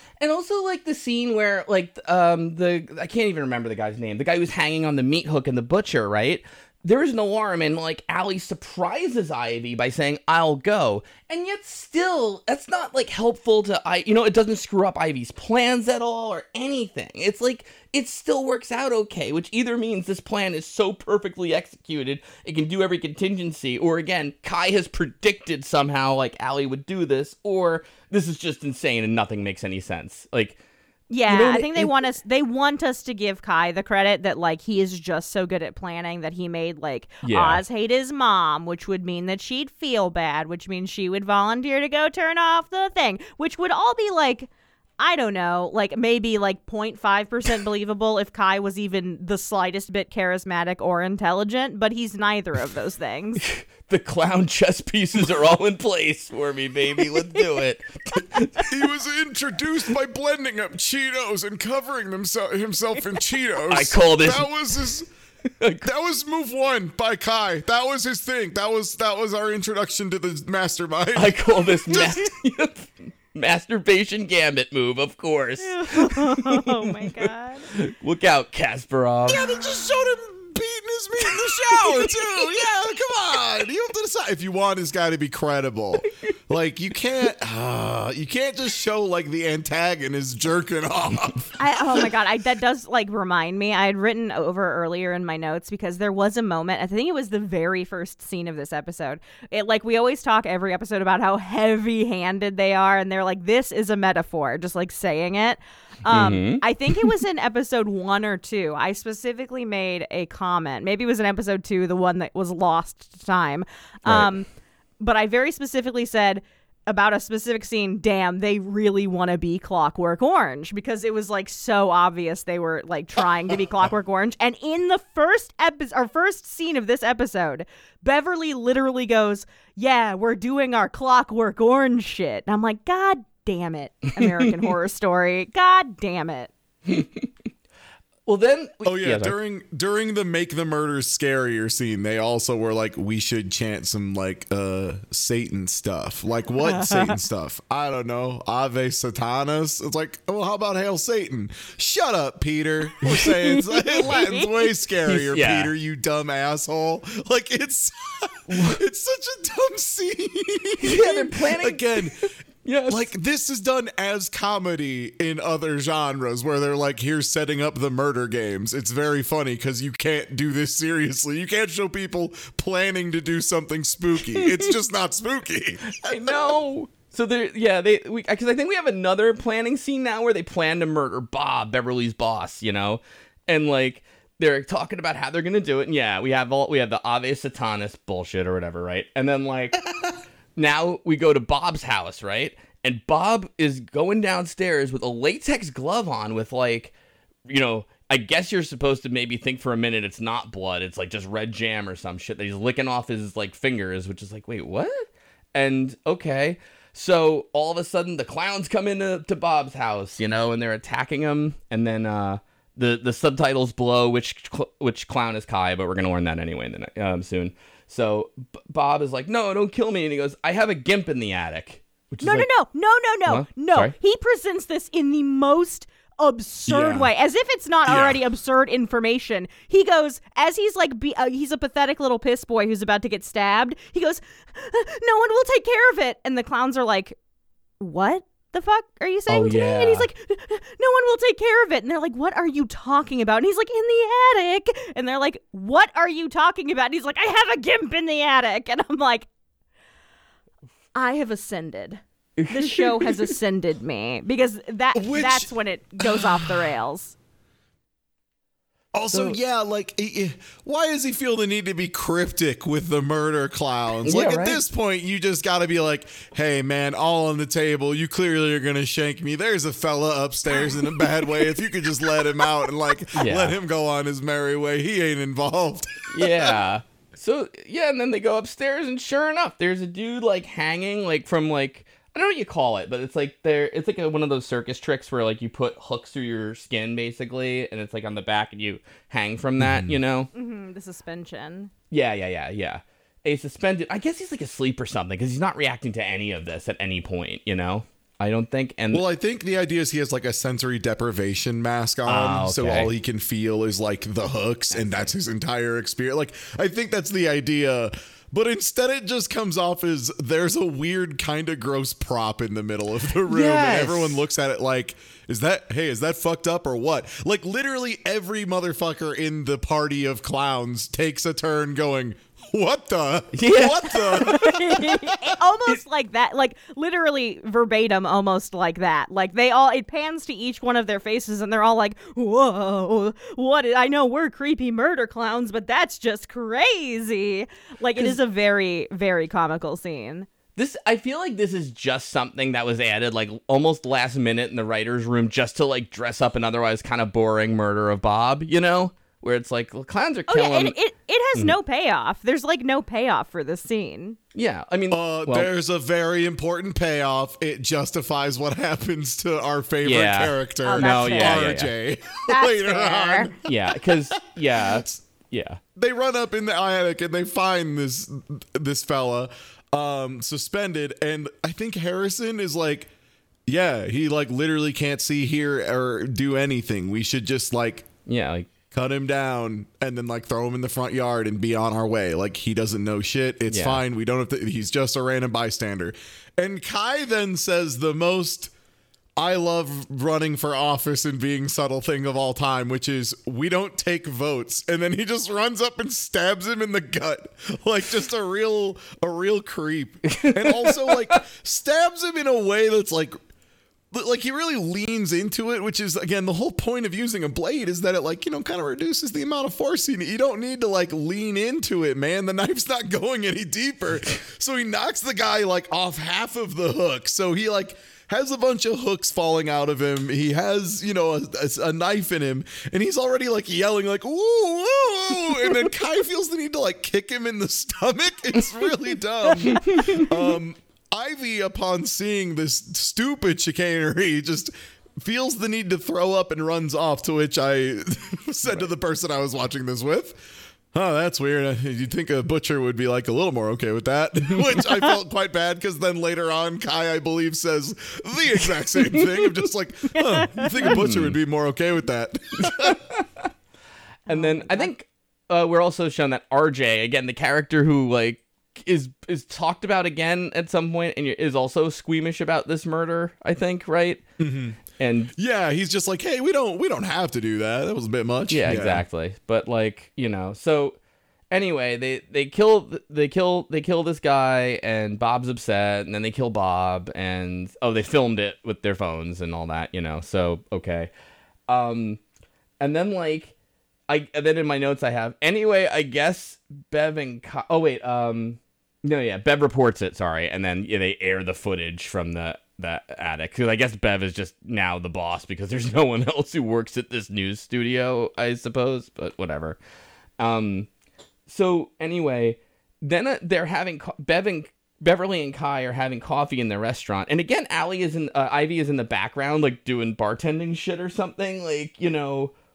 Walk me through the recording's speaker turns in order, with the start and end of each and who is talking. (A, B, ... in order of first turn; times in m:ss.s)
0:00.2-0:30.6 A
0:31.1-0:53.4 B
0:31.3-0:32.0 A
0:37.2-0:37.6 A
0:53.4-0:58.7 A
0:58.7-1:05.1 C
1:03.7-1:04.5 A
1:05.6-1:05.9 A
1:05.8-1:12.3 C
1:11.2-1:19.4 A
1:15.6-1:17.7 B
1:19.3-1:32.1 C
1:21.4-1:22.2 A
1:31.6-1:54.5 B
1:46.1-1:47.2 A
1:54.1-1:54.3 A
1:55.0-2:16.5 B
2:16.9-2:17.3 A
2:18.3-2:19.3 A
2:18.8-2:42.3 C
2:26.6-2:27.2 B
2:33.1-2:34.0 A
2:33.9-2:34.6 B
2:35.1-2:35.7 A
2:38.5-2:38.8 A
2:40.8-2:43.1 A
2:42.9-2:56.4 C
2:54.3-2:54.7 A
2:55.9-3:09.9 A
3:10.6-3:16.9 A
3:17.5-3:42.5 A
3:42.2-3:57.2 B
3:43.3-3:43.9 A
3:46.7-3:47.1 C
3:47.9-3:48.2 C
3:57.8-4:09.3 B
3:59.3-4:00.1 A
4:11.0-4:17.2 B
4:12.4-4:13.4 A
4:15.0-4:16.6 C
4:18.9-4:36.6 C
4:19.1-4:19.4 A
4:24.0-4:24.6 A
4:33.1-4:33.6 A
4:36.1-4:50.3 A
4:49.6-4:50.0 C
4:50.3-4:51.7 B
4:51.9-4:59.0 A
4:58.9-5:25.3 C
5:02.1-5:02.9 A
5:04.7-5:05.1 A
5:13.3-5:14.2 A
5:23.3-5:24.8 A
5:24.2-5:40.3 B
5:40.6-5:50.8 A
5:50.3-5:54.2 B
5:54.4-5:55.5 A
5:54.9-6:05.0 C
5:59.8-6:01.7 A
6:00.7-6:01.5 B
6:02.3-6:03.3 B
6:03.4-6:05.6 A
6:05.8-6:12.9 C
6:13.5-6:17.9 C
6:18.1-6:18.5 A
6:18.7-6:28.5 C
6:23.5-6:23.8 A
6:29.2-6:43.2 C
6:40.1-6:41.2 A
6:43.9-7:32.8 C
7:09.5-7:10.1 A
7:24.3-7:24.9 A
7:28.8-7:29.4 A
7:30.6-7:31.2 A
7:32.4-7:33.1 A
7:34.1-7:34.7 B
7:34.1-7:44.0 A
7:44.2-7:44.6 C
7:44.6-7:45.1 A
7:45.2-7:48.8 C
7:48.3-7:50.8 A
7:51.3-8:00.9 A
8:01.5-8:02.0 A
8:02.6-8:03.3 A
8:03.9-8:19.6 A
8:20.2-8:20.7 A
8:21.3-8:32.3 A